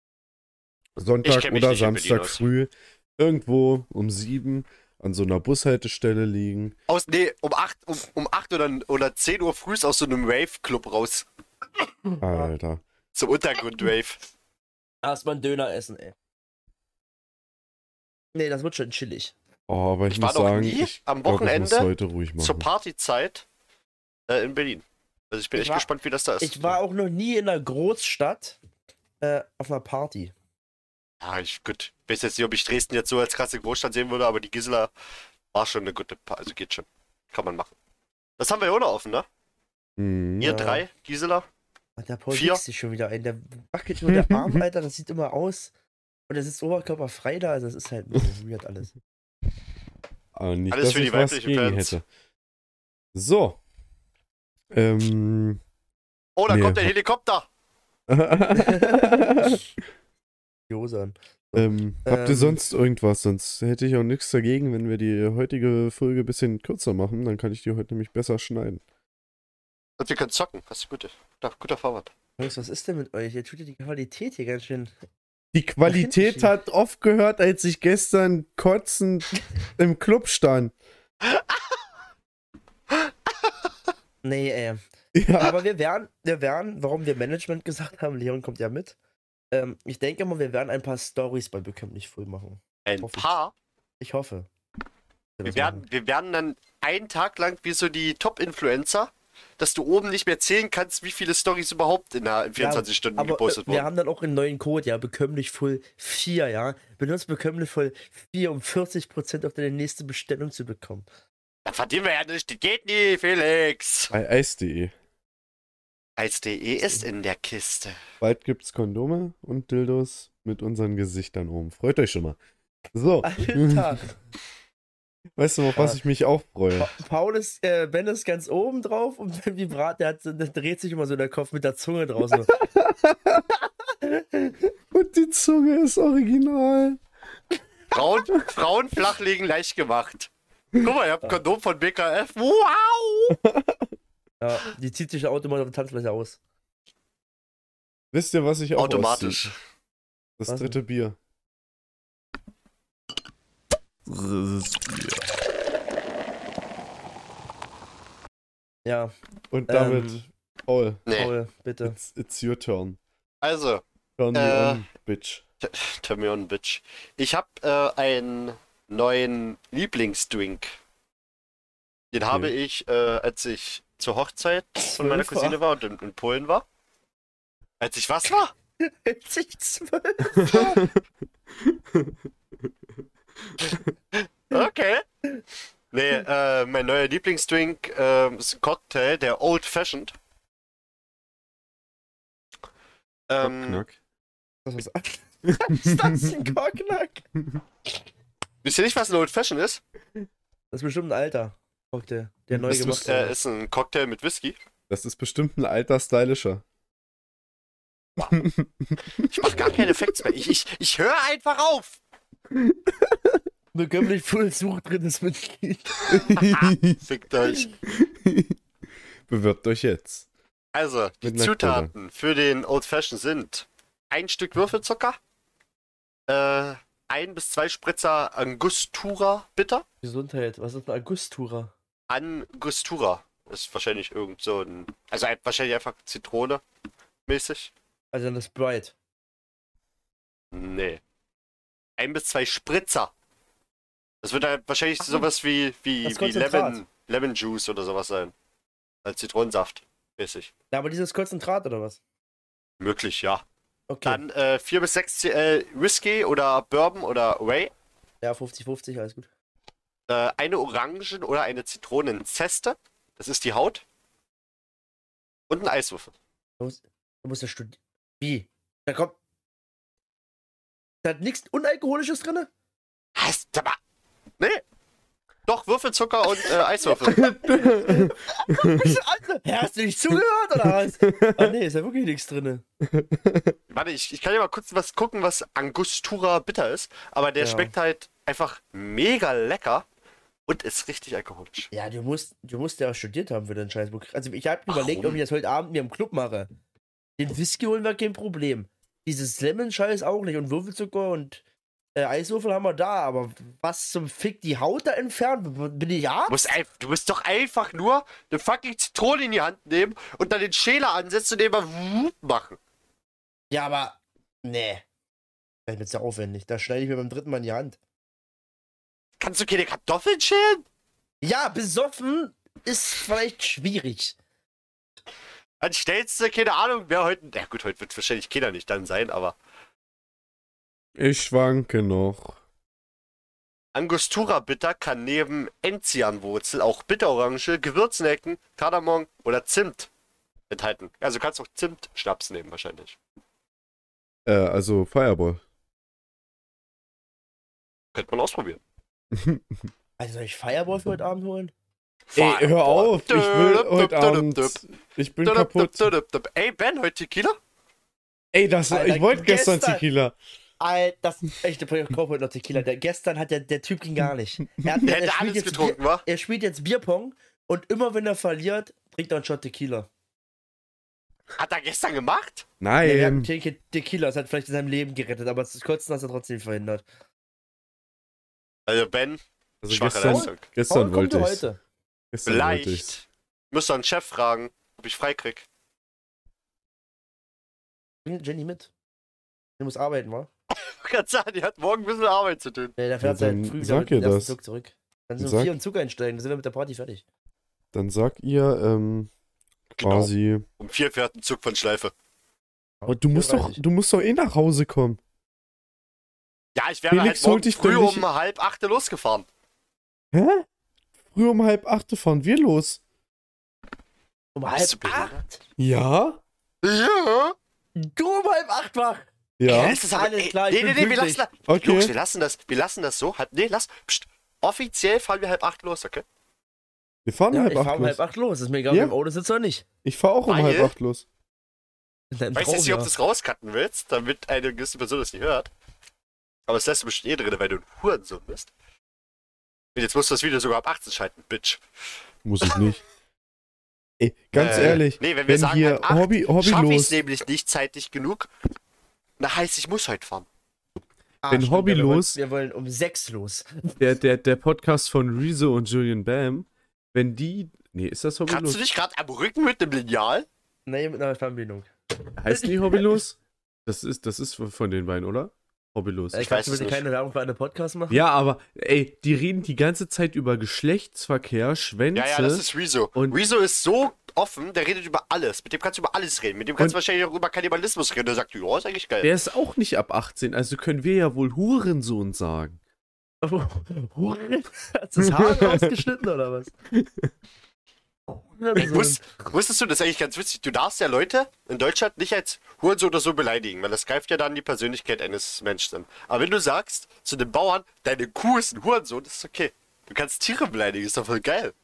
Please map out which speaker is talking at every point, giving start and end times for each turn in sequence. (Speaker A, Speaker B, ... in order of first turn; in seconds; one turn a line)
Speaker A: 1.0-6.8
Speaker B: 1.2-2.4
Speaker B: 6.9-11.2
Speaker C: 12.1-12.5
Speaker A: 12.2-12.8
Speaker B: 13.2-14.2
Speaker C: 15.0-16.1
Speaker C: 18.3-19.4
Speaker A: 19.7-22.7
Speaker B: 20.1-23.5
Speaker B: 24.3-26.8
Speaker C: 25.6-25.9
Speaker C: 26.4-28.6
Speaker C: 29.2-30.3
Speaker B: 31.2-34.9
Speaker B: 35.5-37.7
Speaker B: 38.4-39.3
Speaker A: 40.0-40.6
Speaker B: 40.4-41.5
Speaker C: 40.4-40.8
Speaker C: 42.0-45.7
Speaker B: 42.3-42.6
Speaker A: 44.1-44.6
Speaker C: 46.3-48.9
Speaker A: 50.3-52.0
Speaker B: 50.7-52.0
Speaker A: 53.1-53.6
Speaker A: 54.7-55.6
Speaker B: 56.4-57.5
Speaker A: 56.5-56.9
Speaker A: 58.1-59.6
Speaker C: 58.5-59.6
Speaker C: 60.7-62.6
Speaker A: 61.5-68.8
Speaker B: 70.0-72.1
Speaker C: 72.4-74.9
Speaker A: 75.5-80.7
Speaker C: 75.9-76.5
Speaker C: 84.2-84.8
Speaker A: 85.1-85.6
Speaker C: 85.4-89.0
Speaker C: 89.5-93.3
Speaker B: 92.9-93.5
Speaker C: 94.0-94.5
Speaker C: 95.4-95.8
Speaker B: 95.5-103.9
Speaker C: 102.6-111.1
Speaker B: 111.7-114.1
Speaker A: 114.1-114.9
Speaker B: 116.2-118.0
Speaker A: 118.2-122.4
Speaker A: 122.9-124.0
Speaker C: 123.2-124.1
Speaker A: 125.4-126.9
Speaker C: 126.8-132.6
Speaker A: 132.9-133.4
Speaker C: 134.0-134.7
Speaker A: 134.9-137.0
Speaker B: 137.9-143.4
Speaker A: 143.3-143.9
Speaker C: 144.4-146.4
Speaker A: 148.1-149.5
Speaker B: 148.8-149.6
Speaker A: 150.4-151.2
Speaker C: 150.5-150.8
Speaker A: 154.1-155.3
Speaker C: 158.8-159.1
Speaker A: 159.5-161.0
Speaker C: 159.7-160.3
Speaker B: 161.1-161.3
Speaker C: 161.2-162.0
Speaker A: 161.8-163.0
Speaker B: 163.4-163.8
Speaker A: 164.2-165.4
Speaker B: 164.3-164.8
Speaker B: 165.6-170.7
Speaker B: 172.1-176.7
Speaker C: 174.8-175.6
Speaker B: 177.8-178.5
Speaker C: 178.8-180.9
Speaker A: 180.3-181.0
Speaker A: 181.6-182.2
Speaker B: 184.1-185.0
Speaker B: 185.9-190.1
Speaker B: 193.3-193.8
Speaker A: 193.4-194.0
Speaker C: 194.7-197.3
Speaker A: 195.5-196.4
Speaker B: 198.6-199.8
Speaker C: 200.7-203.3
Speaker A: 202.5-203.1
Speaker B: 202.9-204.6
Speaker A: 204.9-206.6
Speaker A: 208.3-209.8
Speaker B: 209.3-212.0
Speaker A: 212.5-213.2
Speaker C: 213.7-216.3
Speaker A: 216.1-217.0
Speaker B: 216.4-217.7
Speaker A: 217.9-218.6
Speaker A: 219.3-220.3
Speaker B: 220.8-225.2
Speaker A: 221.2-221.9
Speaker B: 226.3-229.8
Speaker C: 230.0-231.7
Speaker B: 232.1-236.6
Speaker B: 237.3-237.7
Speaker C: 238.1-238.9
Speaker B: 240.5-241.0
Speaker B: 242.0-243.1
Speaker B: 244.2-248.3
Speaker C: 246.0-246.8
Speaker B: 249.1-250.5
Speaker C: 250.7-252.0
Speaker B: 252.8-253.4
Speaker C: 253.9-254.2
Speaker B: 254.1-257.7
Speaker C: 258.2-259.3
Speaker B: 260.1-263.8
Speaker B: 265.5-266.1
Speaker C: 266.6-269.2
Speaker C: 271.0-272.5
Speaker B: 273.2-273.8
Speaker B: 275.5-277.4
Speaker A: 277.1-279.0
Speaker C: 277.4-282.6
Speaker A: 280.6-281.5
Speaker A: 282.8-283.6
Speaker B: 283.7-289.9
Speaker C: 287.4-287.7
Speaker B: 290.5-291.7
Speaker C: 291.7-296.5
Speaker B: 294.7-295.2
Speaker C: 297.2-301.4
Speaker C: 302.0-306.4
Speaker B: 306.3-312.6
Speaker C: 313.5-314.8
Speaker C: 315.7-317.8
Speaker B: 319.2-320.6
Speaker C: 321.2-324.2
Speaker B: 325.6-329.4
Speaker A: 331.0-332.4
Speaker B: 333.7-339.9
Speaker B: 340.5-343.0
Speaker A: 344.3-345.4
Speaker B: 347.9-348.6
Speaker A: 349.1-349.7
Speaker C: 350.0-351.5
Speaker B: 352.1-354.6
Speaker A: 352.2-355.9
Speaker B: 355.2-357.4
Speaker A: 358.3-360.2
Speaker C: 358.7-359.8
Speaker C: 360.6-369.9
Speaker B: 364.8-366.0
Speaker B: 371.4-372.5
Speaker A: 372.6-373.3
Speaker C: 372.8-376.8
Speaker B: 378.7-380.4
Speaker A: 379.6-381.4
Speaker C: 380.1-381.6
Speaker A: 382.1-382.9
Speaker B: 382.3-385.5
Speaker C: 388.1-388.7
Speaker C: 389.6-390.3
Speaker B: 390.5-392.8
Speaker C: 392.8-397.0
Speaker A: 393.0-394.4
Speaker A: 395.2-395.5
Speaker A: 397.7-399.1
Speaker B: 399.8-401.9
Speaker A: 399.8-400.5
Speaker C: 402.8-403.6
Speaker A: 402.9-405.0
Speaker B: 406.6-409.3
Speaker A: 406.9-408.1
Speaker A: 410.1-410.5
Speaker A: 411.1-412.8
Speaker C: 414.4-415.4
Speaker B: 414.6-415.2
Speaker A: 415.6-416.2
Speaker B: 416.6-417.4
Speaker C: 417.8-421.3
Speaker A: 419.4-419.8
Speaker B: 419.5-426.0
Speaker A: 421.5-421.9
Speaker A: 427.1-428.0
Speaker C: 427.3-429.6
Speaker A: 429.8-431.1
Speaker B: 430.3-430.7
Speaker C: 432.1-432.9
Speaker B: 432.4-435.5
Speaker B: 436.5-438.5
Speaker B: 439.8-441.6
Speaker A: 442.2-442.8
Speaker A: 444.0-447.0
Speaker B: 444.3-448.3
Speaker C: 444.4-444.8
Speaker B: 449.2-450.3
Speaker C: 451.2-453.8
Speaker A: 451.3-452.2
Speaker A: 453.8-458.6
Speaker B: 458.3-460.3
Speaker C: 460.7-461.7
Speaker A: 462.2-466.2
Speaker C: 462.3-462.9
Speaker C: 466.1-468.0
Speaker B: 466.2-466.8
Speaker A: 467.9-473.2
Speaker B: 471.9-479.1
Speaker A: 479.0-482.6
Speaker C: 483.2-486.5
Speaker A: 485.0-485.7
Speaker A: 486.7-487.1
Speaker C: 488.1-489.0
Speaker B: 488.6-501.5